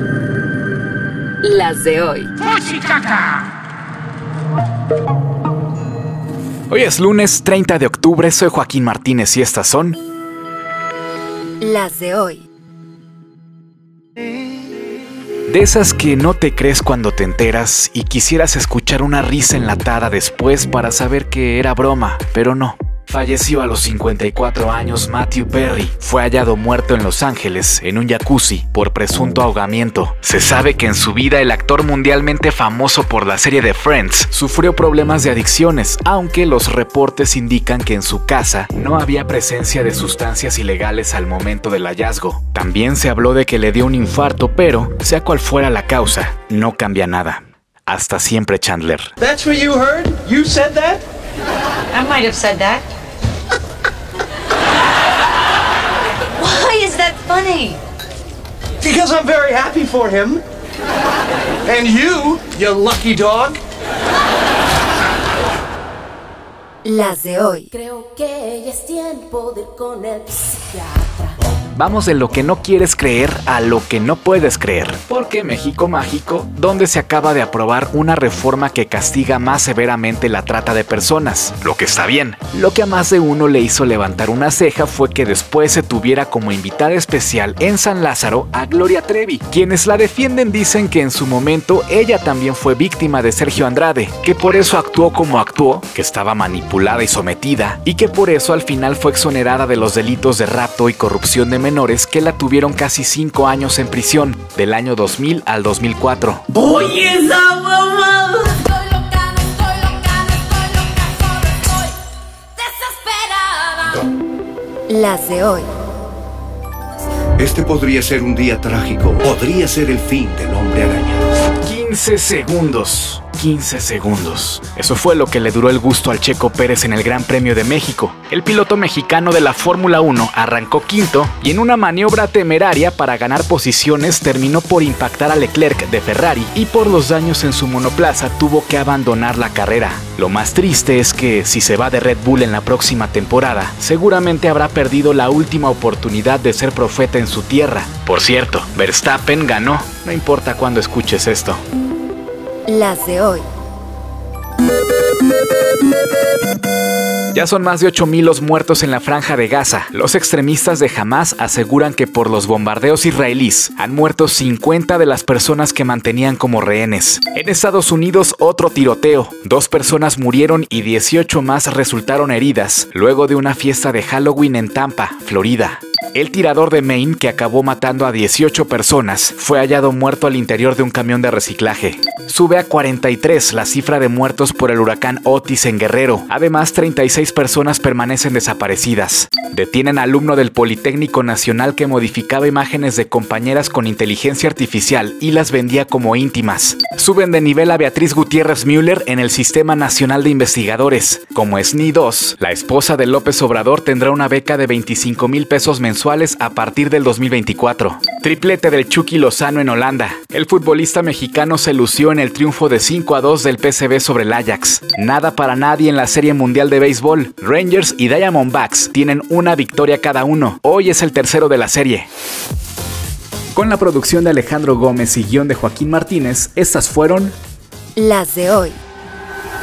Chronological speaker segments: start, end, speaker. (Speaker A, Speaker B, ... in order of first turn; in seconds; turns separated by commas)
Speaker A: 1.4-2.5, Speaker B: 6.7-10.0, Speaker A: 11.6-12.4, Speaker B: 15.5-49.1, Speaker C: 49.2-51.0, Speaker D: 51.9-52.8, Speaker D: 56.4-57.8, Speaker C: 58.8-60.4, Speaker C: 61.6-63.6, Speaker A: 66.8-67.7, Speaker E: 67.7-71.3, Speaker B: 71.7-106.5, Speaker E: 106.6-111.9, Speaker E: 112.6-114.0, Speaker A: 114.9-115.7, Speaker F: 117.4-121.2, Speaker B: 121.6-151.6, Speaker A: 152.7-153.4, Speaker B: 157.3-222.1, Speaker B: 223.5-227.3, Speaker A: 227.9-228.8